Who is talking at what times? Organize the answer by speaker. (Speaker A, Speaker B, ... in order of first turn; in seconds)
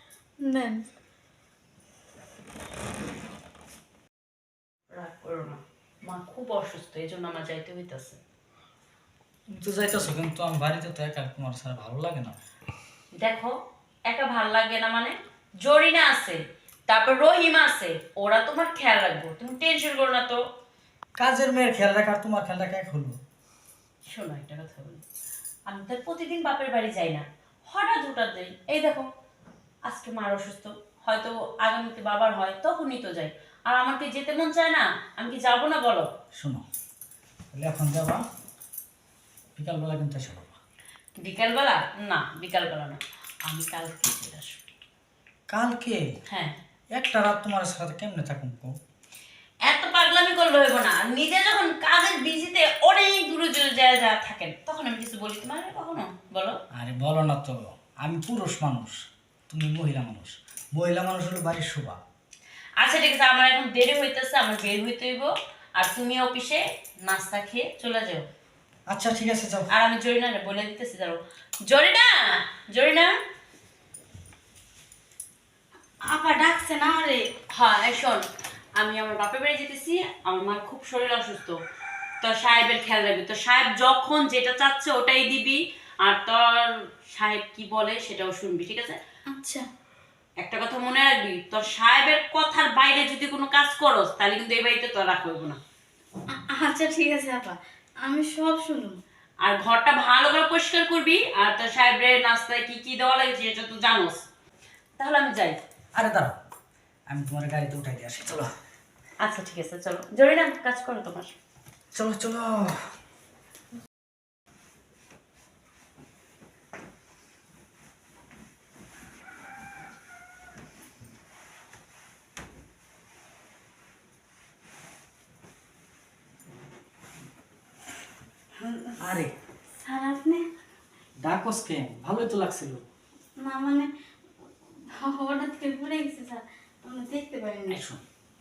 Speaker A: 0.4-0.8, 76.1-77.2, 89.3-89.7, 96.3-99.0, 128.6-129.2, 129.8-130.4, 133.4-133.8, 134.9-137.8
Speaker B: 4.9-8.2, 13.2-13.5, 14.1-20.4, 24.1-25.0, 25.7-29.0, 29.8-36.1, 41.2-44.6, 46.3-46.5, 49.7-56.6, 62.8-68.2, 69.7-73.2, 77.5-78.2, 78.8-81.5, 82.2-89.0, 90.4-95.6, 99.4-104.2, 105.0-105.6, 109.2-111.3
Speaker C: 9.5-12.4, 21.2-23.1, 36.4-36.6, 37.5-38.2, 39.5-40.6, 45.5-46.0, 46.9-48.7, 56.7-59.0, 59.5-62.0, 68.9-69.7, 105.9-106.4, 107.1-108.5, 111.9-112.8, 129.0-129.3, 131.2-132.8, 137.7-138.0